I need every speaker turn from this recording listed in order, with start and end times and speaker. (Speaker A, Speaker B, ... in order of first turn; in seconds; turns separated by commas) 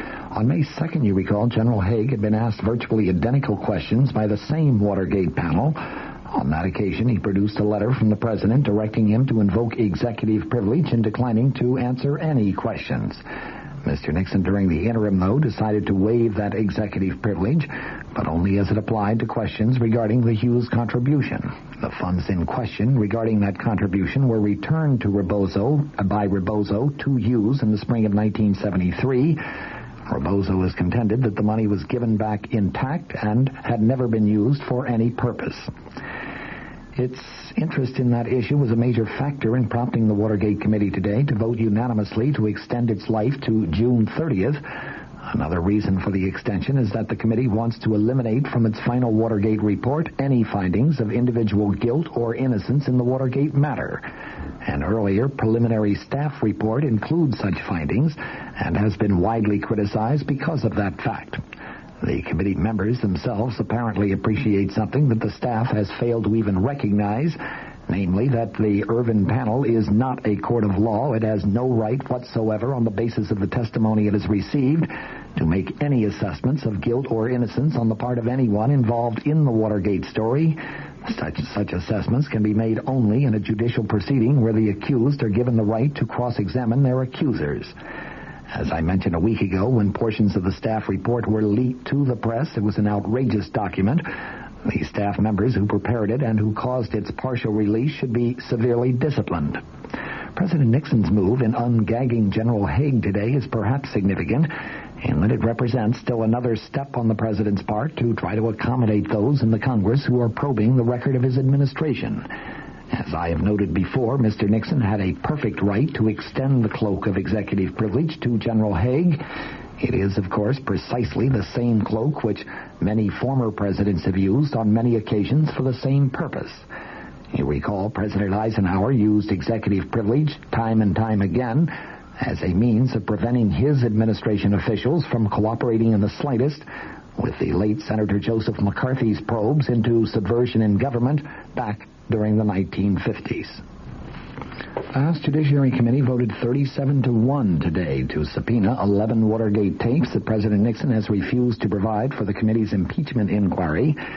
Speaker A: 0.3-13.2, Speaker A: 13.8-29.4, Speaker A: 30.1-35.7, Speaker A: 37.0-44.6, Speaker A: 45.2-54.1, Speaker A: 54.6-61.4, Speaker A: 62.0-87.7, Speaker A: 88.5-94.1, Speaker A: 94.6-99.6, Speaker A: 100.3-112.3, Speaker A: 112.9-119.2, Speaker A: 119.8-126.7, Speaker A: 127.3-143.6, Speaker A: 144.9-154.0